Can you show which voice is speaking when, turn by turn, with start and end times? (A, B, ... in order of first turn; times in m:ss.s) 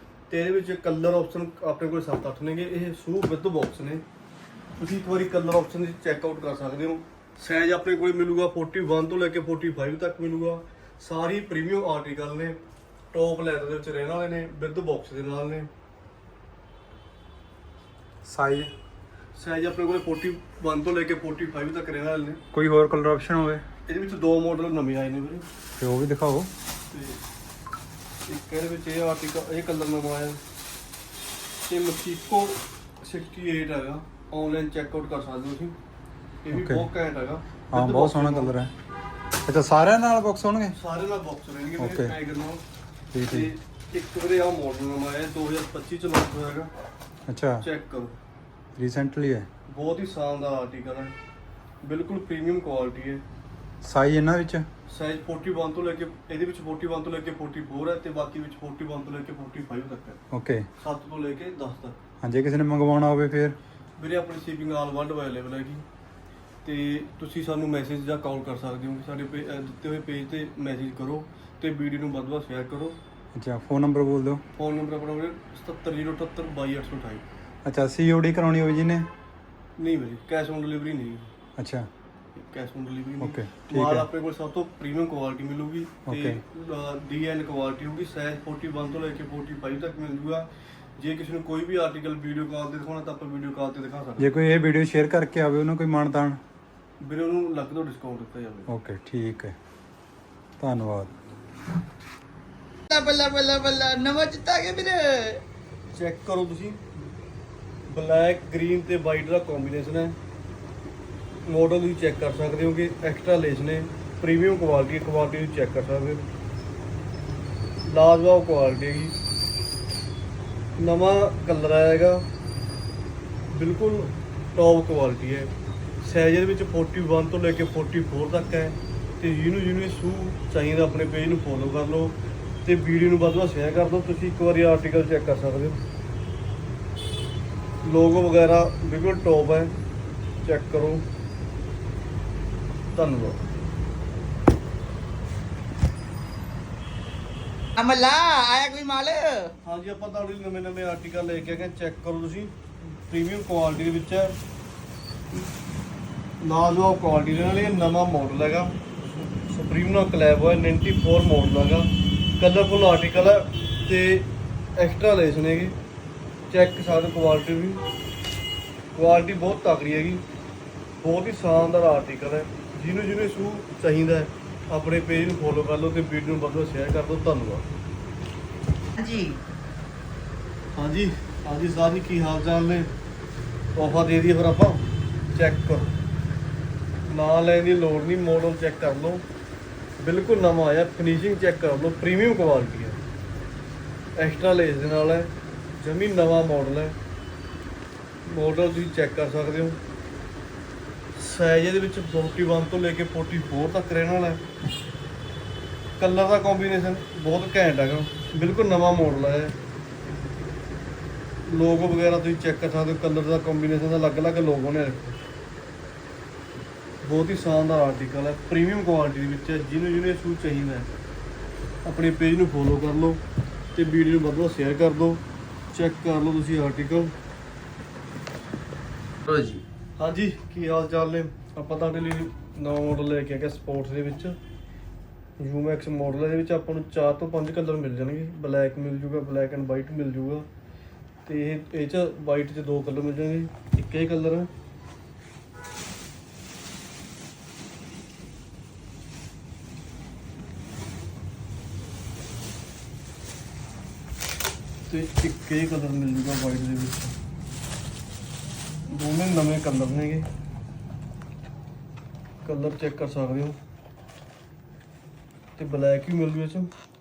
0:00.3-0:04.0 A
0:04.8-0:12.6 A
0:13.1-0:15.7 A
0:18.2-0:18.7 B
0:19.4-0:22.4 A
0:22.5-0:23.6 B
0:23.8-0:25.4 A
0:25.8-0:26.5 B
0:26.9-0:27.2 A
0:28.3-0:30.4 A
0:31.6-0:35.8 A
0:36.4-0:38.5 A
0:36.5-0:36.9 B
0:37.7-0:38.7 B
0:39.4-0:40.8 B
0:40.7-0:42.6 A
0:41.8-0:42.1 B
0:43.1-0:43.5 B
0:43.3-0:46.7 A
0:47.3-0:47.6 B
0:47.6-0:48.1 A
0:48.8-0:49.5 B
0:49.7-0:51.1 A
0:51.8-0:53.2 A
0:53.8-0:54.6 B
0:54.9-1:00.2 A
1:00.3-1:00.7 B
1:00.8-1:02.0 A
1:02.2-1:03.6 B
1:04.0-1:05.8 A
1:06.6-1:13.0 A
1:13.3-1:14.4 B
1:14.6-1:17.2 A
1:17.6-1:19.1 B
1:19.8-1:21.3 A
1:21.6-1:21.9 B
1:22.4-1:34.3 A
1:23.2-1:24.1 B
1:26.0-1:26.4 B
1:34.2-1:36.4 B
1:37.0-1:38.7 A
1:38.7-1:39.5 B
1:40.6-1:41.1 B
1:42.9-1:45.4 C
1:45.9-1:46.9 A
1:47.9-1:50.2 A
1:51.4-1:56.2 A
1:57.8-1:59.1 A
2:00.8-2:02.2 A
2:03.5-2:05.5 A
2:06.0-2:15.8 A
2:17.8-2:19.7 A
2:20.4-2:21.0 A
2:22.9-2:23.4 A
2:27.8-2:29.5 C
2:29.6-2:34.3 A
2:36.4-2:38.8 A
2:39.4-2:45.7 A
2:46.5-2:47.8 A
2:48.9-2:50.2 A
2:51.0-2:57.6 A
2:59.0-2:59.4 C
3:00.7-3:02.9 A
3:03.8-3:05.9 A
3:07.1-3:09.2 A
3:10.0-3:13.0 A
3:14.2-3:17.0 A
3:18.2-3:19.8 A
3:21.1-3:24.4 A
3:26.0-3:29.6 A
3:31.4-3:35.2 A
3:37.0-3:40.9 A
3:41.8-3:43.2 A
3:43.7-3:47.1 A
3:50.0-3:54.3 A
3:55.4-4:00.4 A
4:01.2-4:04.5 A
4:14.9-4:17.1 A
4:18.9-4:20.3 A
4:22.4-4:23.6 A
4:25.6-4:26.7 A